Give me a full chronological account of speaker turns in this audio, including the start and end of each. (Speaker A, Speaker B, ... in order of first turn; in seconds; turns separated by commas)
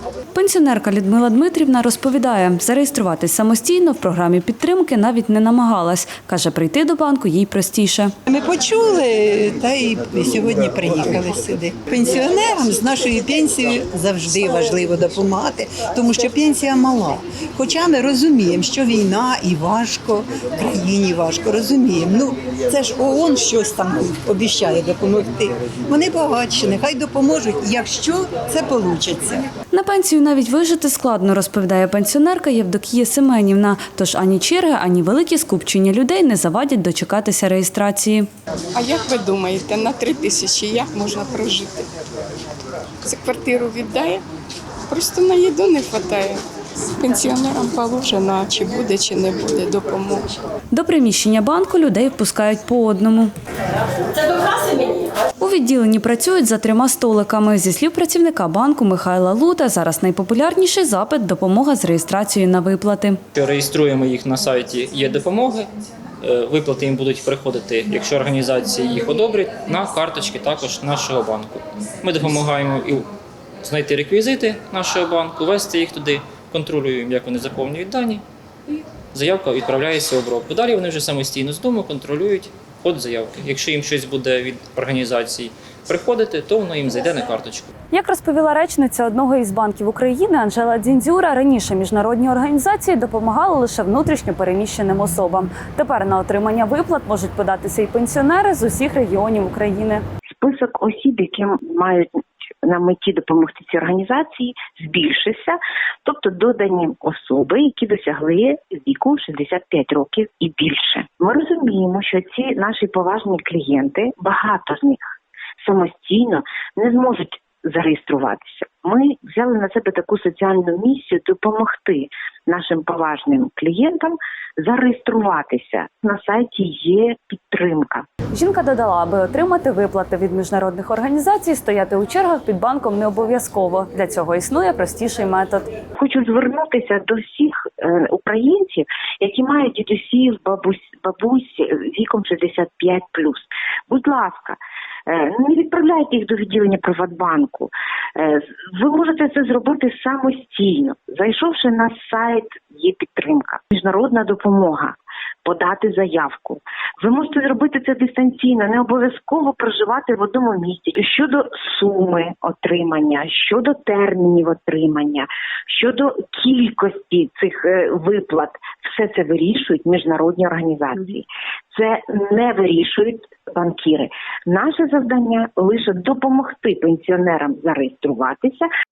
Speaker A: 0.3-8.1, Speaker B: 8.3-29.4, Speaker A: 29.7-38.3, Speaker C: 38.7-41.9, Speaker C: 43.0-44.2, Speaker C: 44.9-46.4, Speaker C: 47.0-50.3, Speaker A: 50.7-53.3, Speaker A: 55.4-63.2, Speaker D: 63.3-65.7, Speaker D: 66.2-73.1, Speaker D: 73.6-78.2, Speaker D: 79.1-87.7, Speaker A: 87.9-100.0, Speaker E: 100.2-115.1, Speaker E: 115.6-128.1, Speaker A: 128.3-135.7, Speaker E: 136.0-178.7